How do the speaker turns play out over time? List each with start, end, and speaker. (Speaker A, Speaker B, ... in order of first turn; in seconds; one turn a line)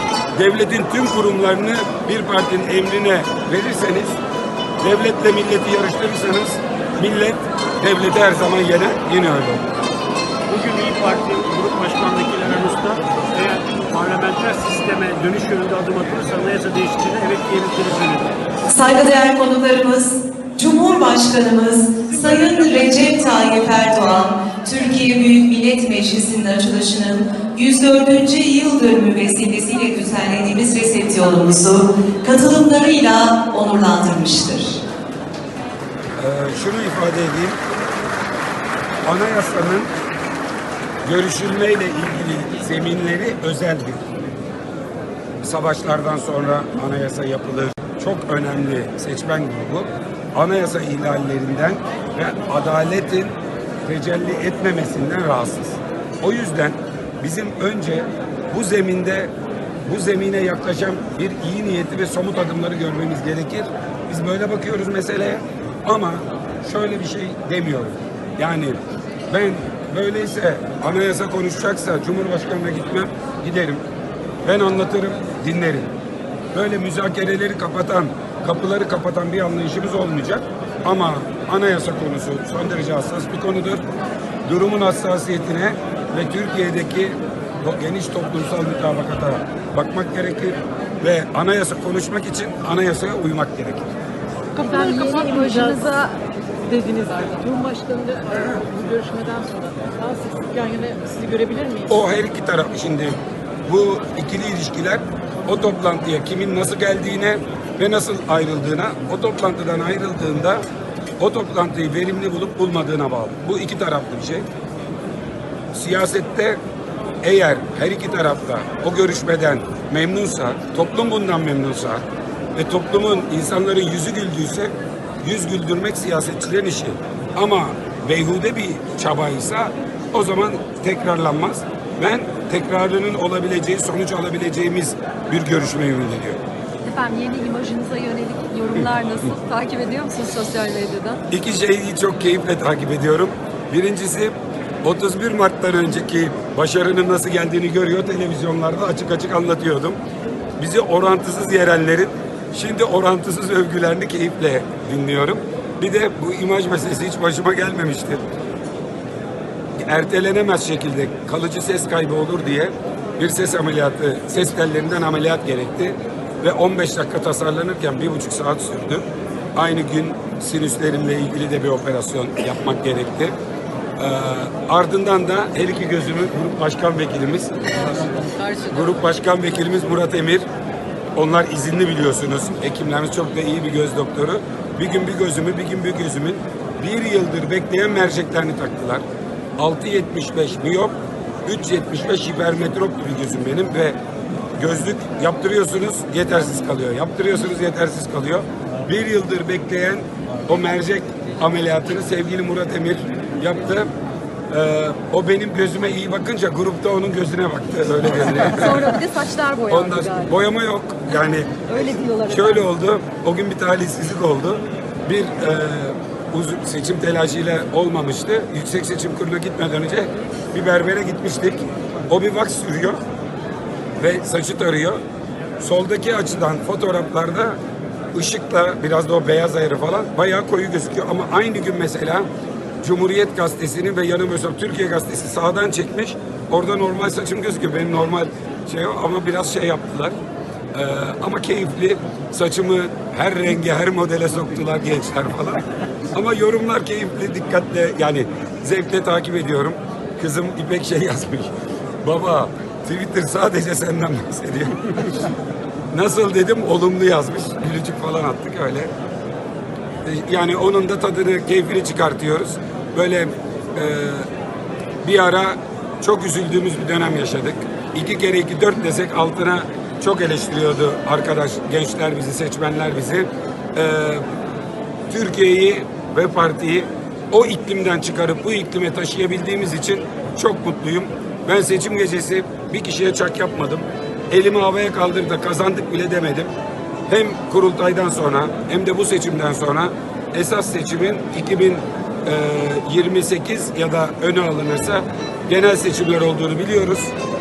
Speaker A: 0.3-4.2
Speaker A: 4.8-9.7
Speaker B: 10.5-18.3
Speaker C: 18.7-34.8
Speaker B: 22.1-23.1
Speaker A: 36.2-37.6
Speaker A: 39.0-39.9
Speaker A: 41.0-44.1
Speaker A: 45.4-59.3
Speaker A: 59.9-68.8
Speaker A: 69.3-73.8
Speaker A: 74.4-75.9
Speaker A: 76.5-83.8
Speaker A: 84.5-93.9
Speaker D: 94.5-96.0
Speaker E: 94.6-96.2
Speaker D: 96.7-102.0
Speaker A: 101.9-110.6
Speaker A: 111.2-114.5
Speaker A: 115.7-116.6
Speaker A: 117.2-122.0
Speaker A: 122.5-136.4
Speaker E: 136.8-141.2
Speaker A: 141.3-150.0
Speaker A: 150.6-158.2
Speaker A: 159.8-169.0
Speaker A: 169.6-173.3
Speaker A: 174.0-177.5
Speaker D: 177.9-179.0
Speaker A: 178.7-180.5
Speaker A: 181.2-189.0
Speaker A: 189.6-194.0
Speaker A: 194.6-203.9
Speaker A: 204.5-208.8
Speaker E: 208.5-210.3
Speaker A: 209.7-211.5
Speaker E: 211.7-212.7
Speaker A: 212.3-223.0
Speaker A: 224.0-225.0
Speaker A: 225.6-227.6
Speaker A: 228.1-232.3
Speaker A: 232.8-240.2
Speaker A: 240.7-251.5
Speaker A: 252.0-255.2
Speaker A: 255.9-258.9
Speaker A: 260.0-264.3
Speaker A: 265.0-274.2
Speaker A: 275.1-286.5
Speaker A: 287.1-297.1